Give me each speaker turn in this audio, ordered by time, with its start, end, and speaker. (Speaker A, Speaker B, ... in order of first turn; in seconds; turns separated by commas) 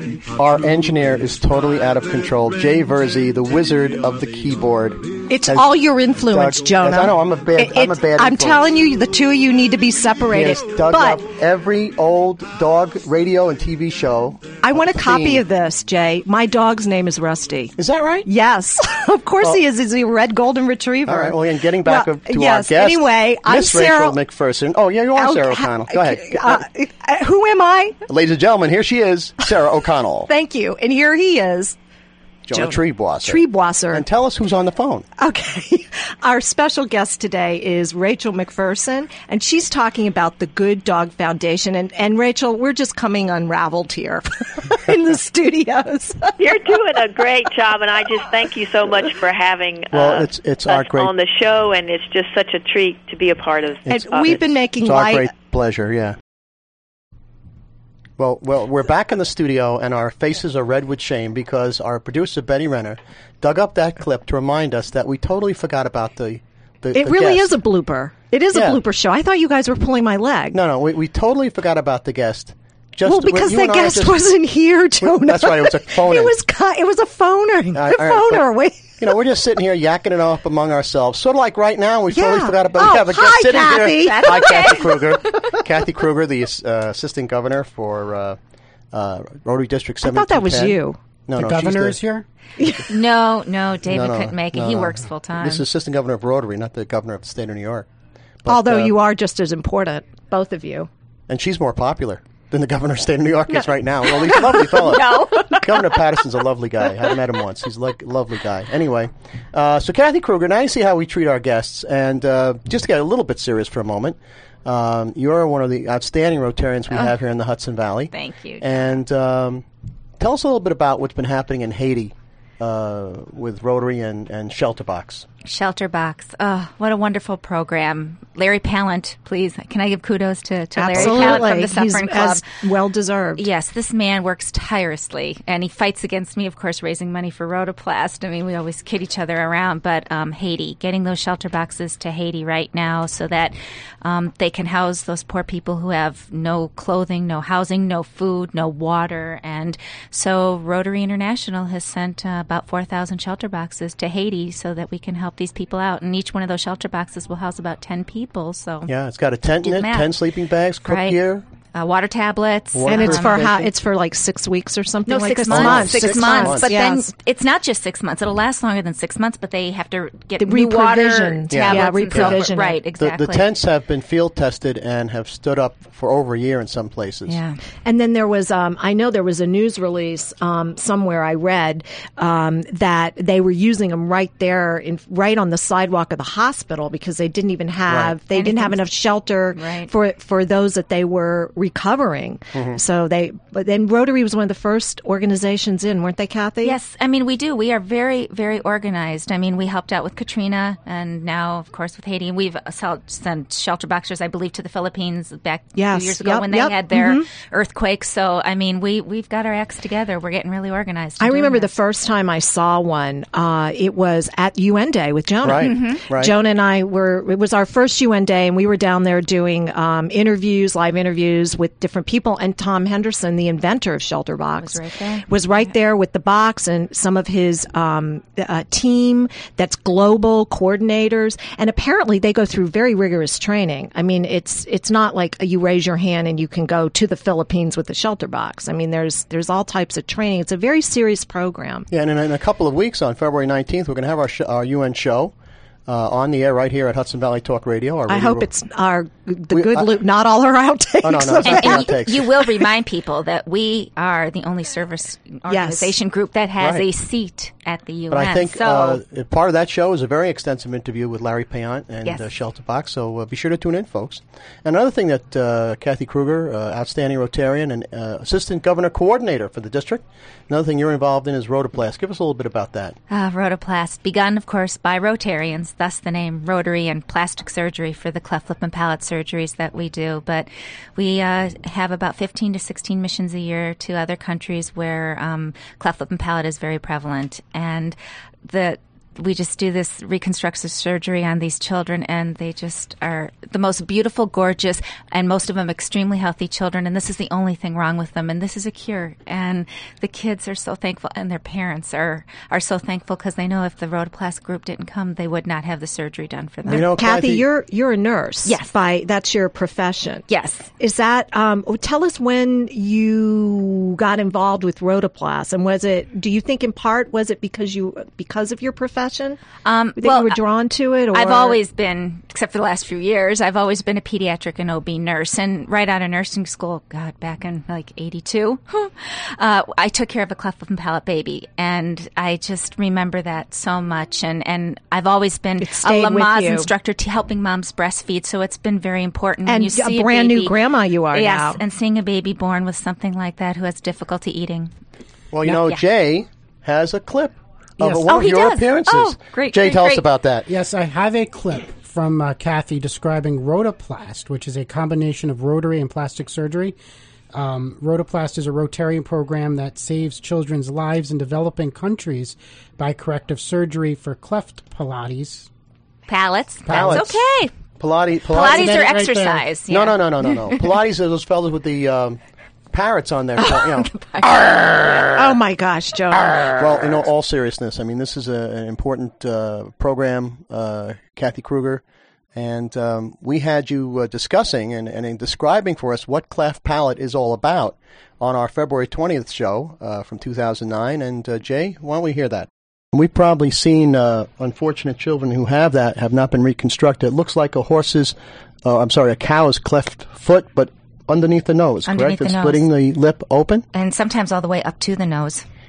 Speaker A: 0.3-5.7, Speaker B: 5.3-11.2, Speaker A: 6.3-8.7, Speaker A: 10.3-15.4, Speaker B: 14.6-17.7, Speaker A: 17.8-18.3, Speaker B: 18.2-24.2, Speaker A: 21.0-26.6, Speaker B: 25.1-28.0, Speaker A: 28.1-30.3, Speaker B: 30.3-31.8, Speaker A: 32.5-35.0, Speaker B: 32.5-34.0, Speaker B: 35.2-46.4, Speaker C: 46.4-54.4, Speaker A: 49.9-51.1, Speaker A: 53.8-56.2, Speaker B: 53.9-55.3, Speaker A: 58.2-67.6, Speaker B: 66.9-70.6, Speaker A: 68.5-68.8, Speaker A: 70.5-74.2, Speaker B: 73.0-79.0, Speaker A: 75.0-76.3, Speaker A: 77.7-78.5, Speaker A: 79.0-88.4, Speaker B: 82.1-84.8, Speaker D: 84.0-85.1, Speaker A: 88.9-92.0, Speaker B: 90.0-91.0, Speaker E: 91.3-92.2, Speaker B: 92.6-92.8, Speaker D: 92.9-95.6, Speaker A: 93.8-97.9, Speaker A: 98.4-98.9, Speaker B: 98.5-100.9, Speaker A: 101.3-119.6, Speaker B: 104.2-105.6, Speaker D: 104.8-105.6, Speaker D: 116.9-117.2, Speaker D: 118.1-118.8, Speaker A: 120.2-125.2, Speaker D: 125.4-132.4, Speaker B: 130.8-133.4, Speaker A: 130.9-131.4, Speaker D: 133.3-158.9, Speaker A: 158.8-161.4, Speaker D: 159.6-160.2, Speaker D: 160.8-161.2, Speaker D: 161.7-163.4, Speaker A: 162.7-163.7, Speaker B: 162.9-167.1, Speaker D: 165.1-173.5, Speaker A: 165.5-166.7, Speaker B: 170.4-172.8, Speaker A: 171.5-177.4, Speaker D: 177.3-177.6, Speaker B: 177.8-196.8, Speaker A: 187.9-188.1, Speaker D: 188.3-188.8, Speaker D: 189.5-189.9, Speaker A: 192.5-192.8, Speaker D: 196.6-211.7, Speaker B: 205.7-207.3, Speaker B: 211.2-241.9, Speaker A: 215.4-216.3, Speaker D: 215.6-216.0, Speaker D: 224.6-225.7, Speaker A: 241.9-245.3, Speaker A: 245.9-248.5, Speaker B: 248.1-251.9, Speaker A: 249.5-249.9, Speaker A: 251.0-252.3, Speaker D: 251.4-259.0, Speaker B: 255.5-255.9, Speaker A: 256.6-256.9, Speaker A: 258.1-273.0, Speaker D: 273.1-306.9, Speaker A: 306.6-307.4, Speaker B: 306.7-310.2, Speaker D: 308.4-308.7, Speaker D: 310.3-310.7, Speaker B: 310.8-319.4, Speaker D: 319.6-320.4, Speaker B: 320.0-321.6, Speaker D: 321.1-340.6, Speaker B: 335.6-336.7, Speaker B: 339.4-341.6, Speaker D: 341.1-344.7, Speaker A: 345.3-350.5, Speaker D: 348.0-350.0, Speaker E: 350.5-356.7, Speaker E: 357.3-365.5, Speaker D: 366.1-367.5, Speaker E: 366.6-367.1, Speaker A: 366.7-367.1, Speaker A: 367.8-368.9, Speaker D: 368.3-370.6, Speaker E: 368.3-369.5, Speaker A: 369.7-372.2, Speaker A: 372.7-373.9, Speaker D: 373.4-374.5, Speaker B: 375.1-376.6, Speaker A: 376.6-381.8, Speaker A: 382.3-403.6, Speaker D: 401.9-402.7, Speaker D: 403.7-405.4